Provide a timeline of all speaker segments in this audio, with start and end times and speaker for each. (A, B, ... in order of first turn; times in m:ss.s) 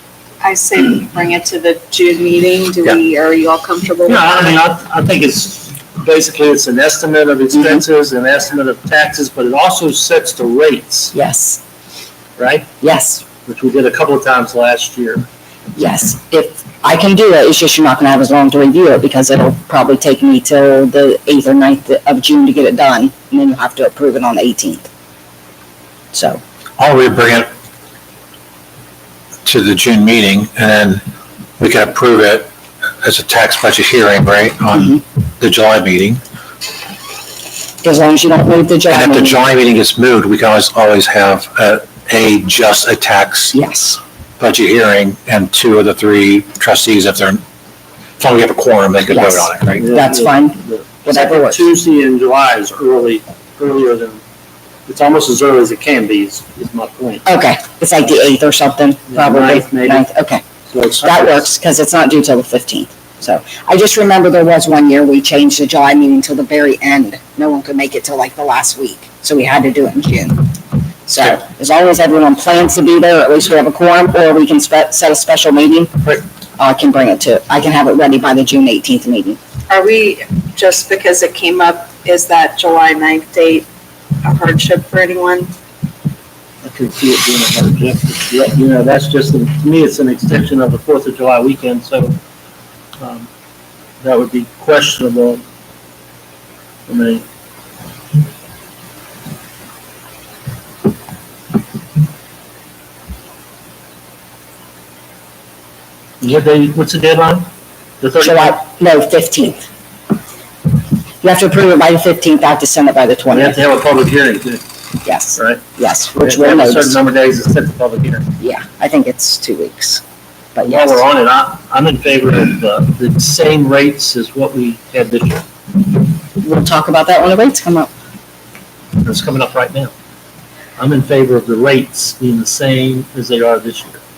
0:00.4-0:04.5 A
0:04.0-0:11.1 B
0:07.5-0:07.8 C
0:11.1-0:11.6 C
0:12.4-0:12.7 B
0:12.8-0:13.2 C
0:13.4-0:15.3 B
0:15.7-0:24.9 C
0:26.1-0:26.4 C
0:26.8-0:27.5 D
0:29.4-0:31.0 D
0:31.6-0:32.5 D
0:33.0-0:34.8 D
0:34.7-0:35.0 C
0:35.4-0:36.2 D
0:37.8-0:39.4 C
0:38.9-0:43.5 D
0:43.5-0:44.0 C
0:44.4-0:47.4 D
0:48.2-0:49.8 D
0:49.0-0:51.7 C
0:49.8-0:54.2 B
0:54.8-0:57.2 B
0:57.2-1:00.4 C
0:59.1-1:00.1 B
1:00.7-1:01.4 B
1:01.0-1:10.5 C
1:11.1-1:19.4 C
1:19.7-1:23.7 A
1:24.2-1:25.5 A
1:26.6-1:32.2 B
1:33.0-1:33.3 B
1:34.0-1:35.4 B
1:36.8-1:37.2 B
1:46.2-1:47.5 B
1:48.0-1:48.6 B
1:48.2-1:49.7 C
1:51.2-1:53.6 C
1:53.3-1:54.6 B
1:55.0-1:57.0 C
1:55.4-1:55.6 B
1:56.2-1:58.3 B
1:58.4-2:00.0 C
2:00.5-2:01.0 C
2:00.6-2:05.4 B
2:06.4-2:07.9 C
2:09.0-2:09.9 B
2:10.8-2:14.0 B